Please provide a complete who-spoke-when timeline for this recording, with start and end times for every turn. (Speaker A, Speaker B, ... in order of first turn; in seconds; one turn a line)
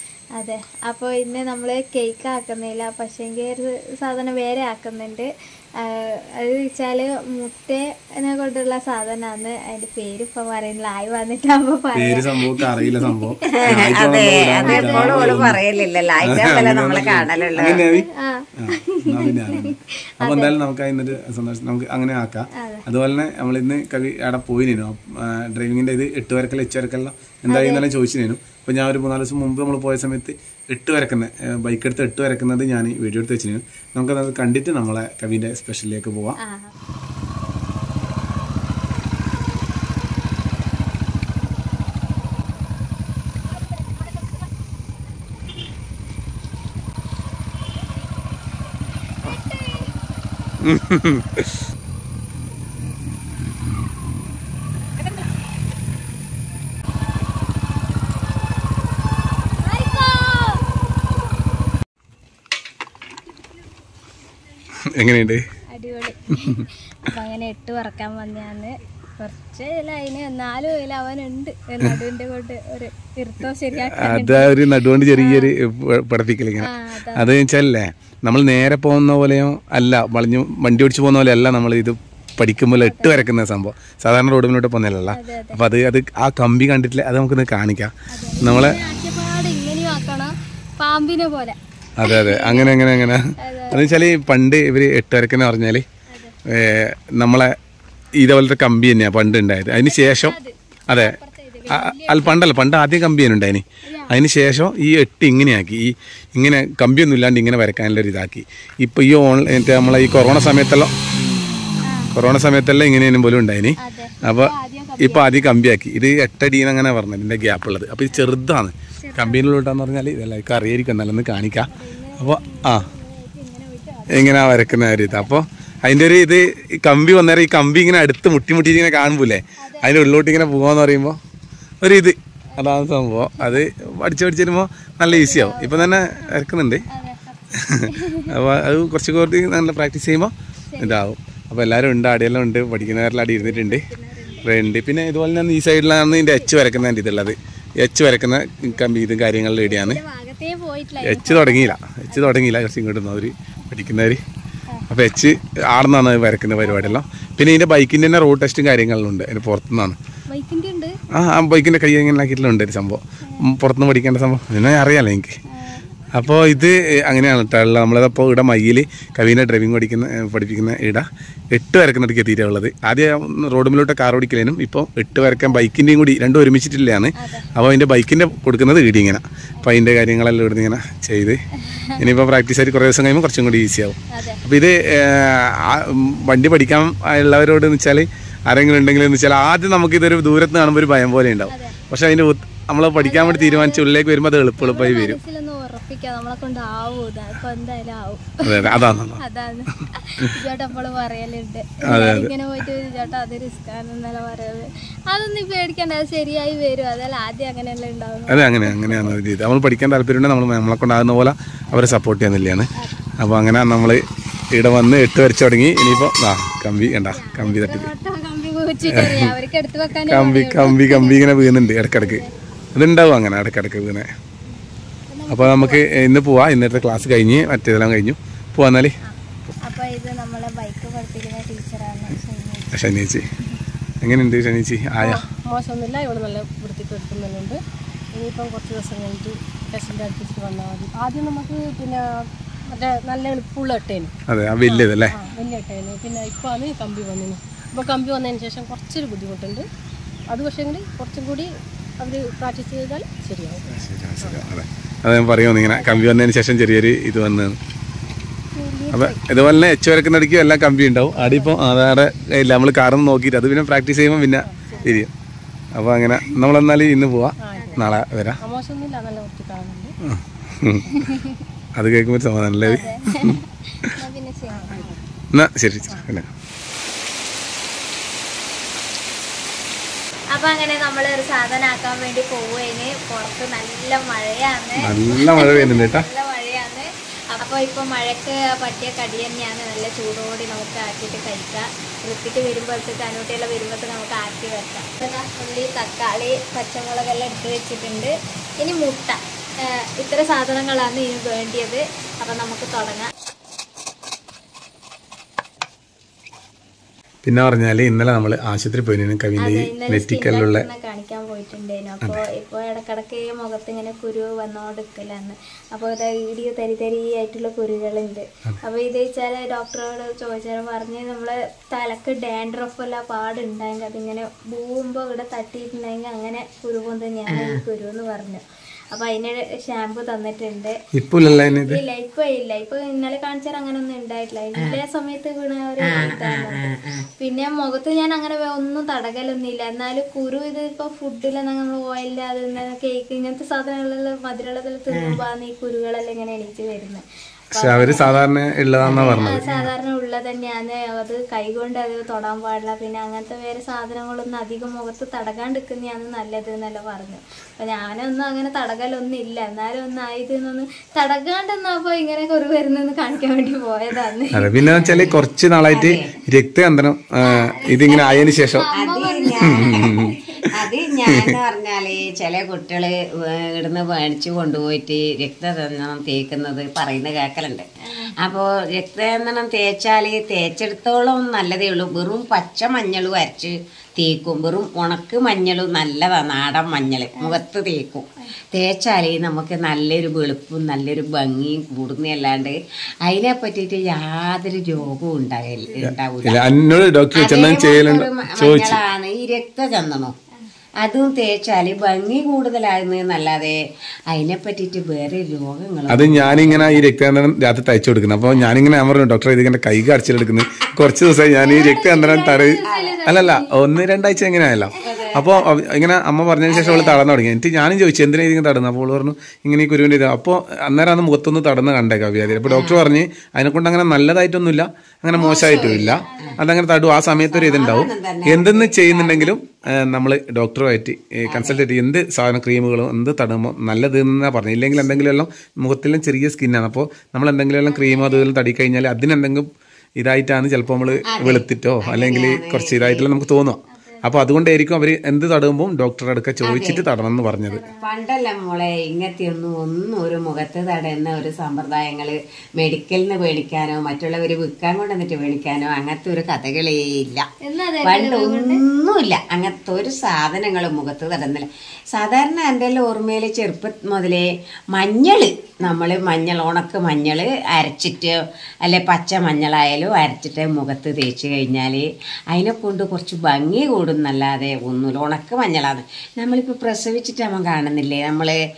Speaker A: 0.4-5.3
Speaker A: 5.8-13.8
Speaker B: 11.9-15.6
Speaker C: 13.6-17.8
Speaker A: 14.6-15.9
Speaker B: 16.3-18.1
Speaker A: 17.8-20.6
Speaker B: 18.6-36.4
Speaker A: 22.6-22.8
Speaker A: 27.5-27.9
Speaker A: 36.4-36.7
Speaker A: 49.2-49.9
Speaker B: 50.6-51.6
Speaker A: 59.6-60.6
Speaker B: 64.9-65.4
Speaker A: 65.7-74.6
Speaker B: 73.8-88.8
Speaker A: 75.1-75.5
Speaker A: 76.6-77.3
Speaker A: 82.8-83.3
Speaker A: 85.1-85.6
Speaker A: 88.1-92.8
Speaker B: 92.0-95.8
Speaker A: 93.4-94.0
Speaker A: 96.1-96.3
Speaker B: 96.5-97.5
Speaker B: 98.2-100.4
Speaker A: 99.8-102.4
Speaker B: 100.9-101.2
Speaker B: 101.7-110.9
Speaker A: 103.8-104.1
Speaker A: 111.9-112.1
Speaker B: 112.1-122.9
Speaker A: 113.8-115.5
Speaker A: 119.0-119.4
Speaker A: 121.7-125.3
Speaker B: 124.1-131.2
Speaker A: 129.6-130.2
Speaker B: 131.8-136.8
Speaker A: 132.5-132.8
Speaker A: 135.1-136.3
Speaker A: 136.9-138.3
Speaker B: 137.7-143.8
Speaker A: 140.7-141.0
Speaker A: 142.8-144.6
Speaker B: 144.4-150.0
Speaker A: 146.0-146.5
Speaker A: 149.6-152.3
Speaker B: 151.0-154.2
Speaker B: 154.9-160.0
Speaker A: 156.6-157.0
Speaker A: 160.3-160.9
Speaker B: 161.1-165.4
Speaker A: 165.5-165.8
Speaker B: 166.1-181.4
Speaker A: 175.3-175.7
Speaker A: 177.2-177.5
Speaker A: 181.7-182.0
Speaker B: 182.0-195.2
Speaker A: 184.1-184.4
Speaker A: 191.5-191.8
Speaker A: 193.0-193.8
Speaker A: 194.6-209.2
Speaker B: 198.4-199.2
Speaker B: 201.8-202.3
Speaker B: 208.3-217.9
Speaker A: 215.8-216.1
Speaker A: 216.8-222.3
Speaker B: 218.9-219.3
Speaker B: 220.1-222.2
Speaker B: 222.8-224.1
Speaker A: 225.1-225.8
Speaker B: 225.3-228.9
Speaker A: 229.0-232.7
Speaker B: 232.7-233.2
Speaker B: 234.0-235.2
Speaker D: 235.0-237.6
Speaker D: 238.2-242.0
Speaker D: 242.7-244.1
Speaker B: 244.3-245.1
Speaker D: 244.7-249.7
Speaker D: 250.3-251.5
Speaker D: 252.0-254.4
Speaker B: 253.7-257.6
Speaker A: 255.8-256.1
Speaker D: 258.6-259.2
Speaker B: 258.9-265.1
Speaker D: 261.1-261.5
Speaker D: 264.4-264.9
Speaker A: 264.7-265.1
Speaker B: 265.8-268.4
Speaker D: 267.4-267.9
Speaker A: 267.6-268.0
Speaker D: 268.4-269.9
Speaker B: 270.1-271.0
Speaker A: 270.9-271.3
Speaker B: 271.8-273.4
Speaker A: 272.6-274.9
Speaker D: 274.5-275.0
Speaker B: 275.3-276.3
Speaker D: 275.9-276.1
Speaker A: 280.3-303.1
Speaker B: 284.8-286.1
Speaker B: 307.2-310.7
Speaker A: 309.4-330.8
Speaker C: 327.3-327.6
Speaker B: 330.9-331.8
Speaker A: 331.3-336.7
Speaker C: 335.9-337.1
Speaker A: 337.2-348.2
Speaker C: 344.9-345.2
Speaker B: 347.5-349.7
Speaker C: 348.8-349.3
Speaker A: 349.1-364.5
Speaker B: 364.3-368.7
Speaker C: 364.8-366.1
Speaker A: 367.2-370.5
Speaker C: 368.7-370.0
Speaker B: 369.4-370.1
Speaker C: 370.6-377.7
Speaker A: 377.9-378.1
Speaker C: 378.2-396.4
Speaker B: 395.8-398.8
Speaker C: 397.1-400.1
Speaker C: 400.8-403.6
Speaker C: 404.1-406.8
Speaker B: 405.9-439.5
Speaker A: 411.4-413.5
Speaker C: 412.6-413.0
Speaker C: 414.8-415.2
Speaker C: 416.5-417.0
Speaker C: 422.5-422.8
Speaker C: 425.1-426.4
Speaker A: 425.6-426.4
Speaker C: 427.3-429.4
Speaker C: 431.3-431.6
Speaker C: 434.8-435.1
Speaker A: 437.7-438.3
Speaker B: 440.0-447.7
Speaker C: 441.1-443.1
Speaker A: 443.7-444.1
Speaker C: 446.4-446.8
Speaker A: 447.1-447.9
Speaker C: 447.8-457.3
Speaker A: 457.4-458.6
Speaker C: 457.8-478.4